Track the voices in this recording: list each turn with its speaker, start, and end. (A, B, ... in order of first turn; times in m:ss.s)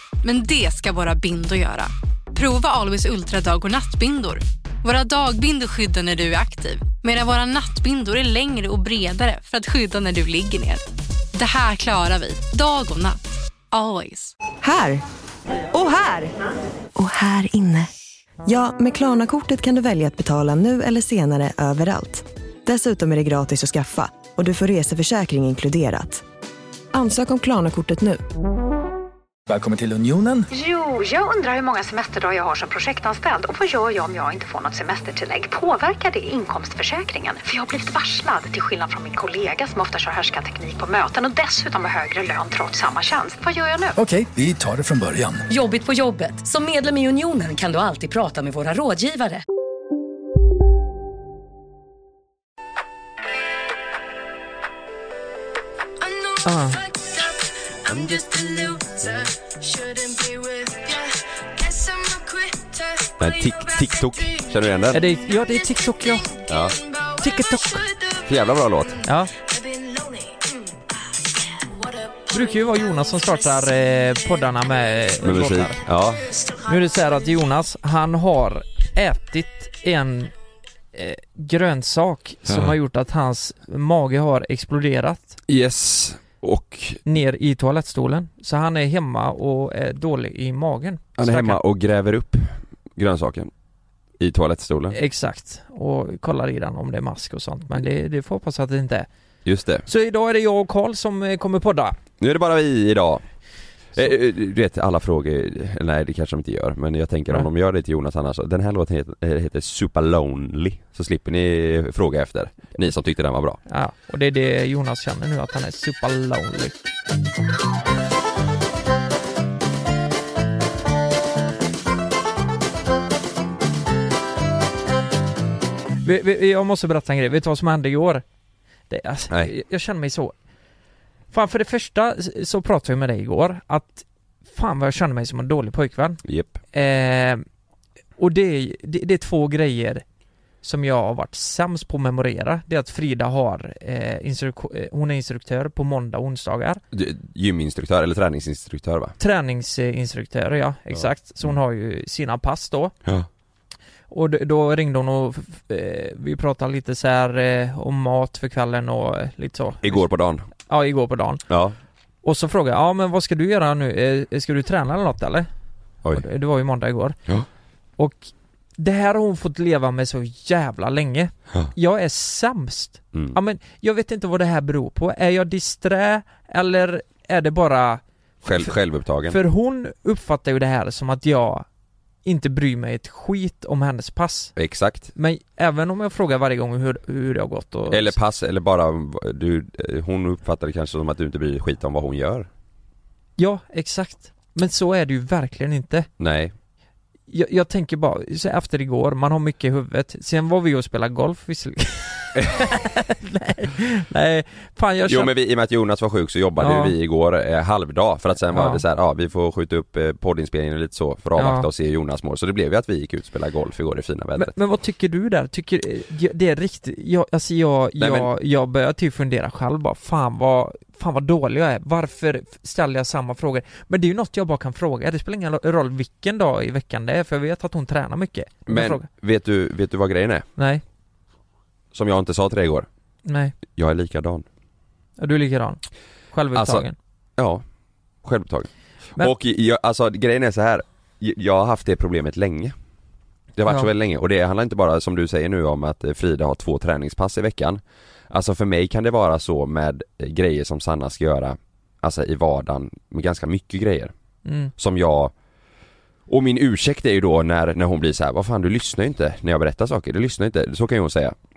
0:00.2-0:13.2 A
0:13.7-0:14.3 A
0:14.6-0:15.0 B
0:15.7-0:16.3 B
0:17.0-0:17.9 B
0:18.5-0:26.2 B
0:26.9-0:28.2 B
0:29.5-0:30.5 C
0:30.5-0:43.9 D
0:44.0-0:45.4 C
0:45.5-0:49.4 E
0:56.4-0:56.8 F
0:57.8-0:59.2 G
1:03.2-1:05.0 G
1:04.9-1:06.3 F
1:06.5-1:06.8 G
1:07.2-1:07.9 F
1:08.2-1:09.0 G
1:09.0-1:09.3 F
1:12.3-1:15.8 F
1:15.2-1:16.2 G
1:16.6-1:20.3 F
1:20.9-1:25.4 F
1:25.5-1:27.0 G
1:27.1-1:31.6 F
1:31.2-1:33.5 G
1:34.2-1:35.0 G
1:34.9-1:39.1 F
1:39.4-1:39.9 G
1:39.9-1:42.0 F
1:42.2-1:43.2 G
1:43.9-1:53.6 G
1:53.7-1:56.8 F
2:06.0-2:08.2 F
2:08.9-2:10.4 F
2:11.3-2:16.2 F
2:16.2-2:16.6 G
2:16.7-2:17.4 F
2:18.2-2:20.0 F
2:20.6-2:26.8 F
2:26.9-2:29.2 G
2:29.2-2:32.9 F
2:34.1-2:40.1 F
2:39.8-2:40.5 G
2:40.7-2:41.4 F
2:41.5-2:41.8 G
2:42.2-2:45.5 F
2:46.1-2:47.2 F
2:48.0-2:58.7 F
2:58.4-2:59.4 G
2:59.3-3:01.7 F
3:02.2-3:04.5 F
3:04.6-3:05.1 G
3:05.2-3:08.2 F
3:07.9-3:12.5 G
3:13.4-3:16.1 F
3:16.2-3:16.5 G
3:17.3-3:25.3 F
3:22.4-3:22.7 G
3:25.1-3:34.6 G
3:26.6-3:27.0 F
3:28.5-3:28.8 F
3:31.4-3:31.7 F
3:34.4-3:49.1 F
3:38.0-3:38.3 G
3:48.7-3:50.5 G
3:50.6-3:50.8 F
3:51.9-3:52.9 G
3:53.2-3:53.5 F
3:53.7-3:54.5 G
3:55.2-3:55.8 F
3:56.3-3:57.0 F
3:56.5-3:57.6 G
3:58.2-4:02.7 G
4:03.6-4:14.1 G
4:14.4-4:14.7 F
4:14.8-4:15.3 G
4:16.3-4:21.4 G